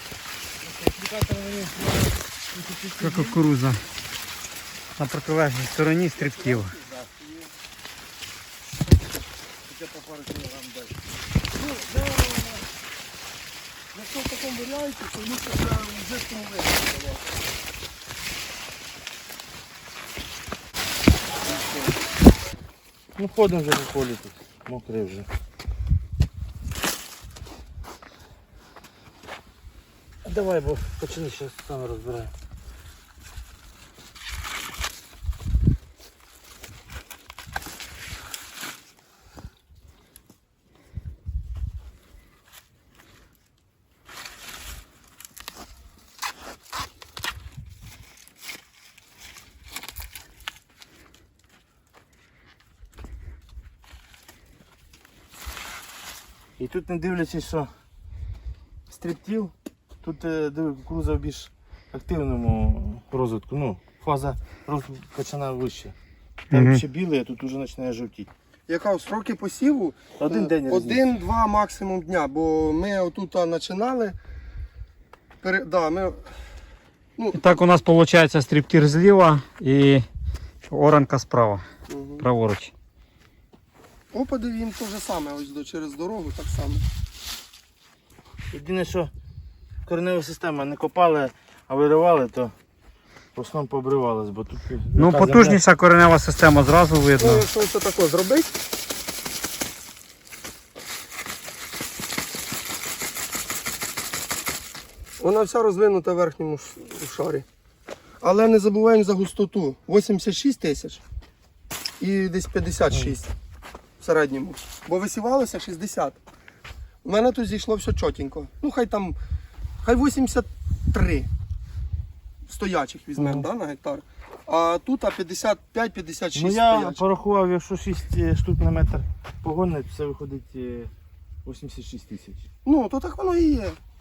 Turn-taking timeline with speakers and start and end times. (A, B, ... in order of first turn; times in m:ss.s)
0:00.6-0:03.4 A
0:03.0-0:03.8 B
0:05.0-0:06.7 B
0:06.2-0:07.5 C
0:09.7-0:11.0 A
0:11.5-0:12.6 C
0:13.9-0:17.2 C
0:21.4-0:22.0 C
0:23.2-0:25.3 A
0:30.2-0:32.3 A
0:56.6-0:57.7 A
0:58.9-1:05.9 A
1:06.5-1:06.8 B
1:06.5-1:08.3 A
1:08.7-1:14.2 C
1:10.2-1:11.1 A
1:15.4-1:16.3 C
1:17.2-1:17.6 C
1:17.3-1:20.0 B
1:20.6-1:21.6 B
1:21.9-1:22.3 C
1:22.2-1:22.7 B
1:24.1-1:26.8 C
1:28.5-1:29.1 A
1:29.8-1:32.5 A
1:33.3-1:35.6 A
1:34.9-1:37.4 B
1:37.2-1:38.5 C
1:45.2-1:47.4 C
1:48.2-1:51.0 C
1:52.0-1:53.3 C
1:52.9-1:53.2 A
1:54.0-1:56.2 C
1:57.0-1:59.2 C
1:59.8-2:01.3 C
2:02.5-2:07.0 C
2:03.2-2:03.5 A
2:06.3-2:10.9 A
2:11.4-2:12.4 A
2:12.6-2:13.8 C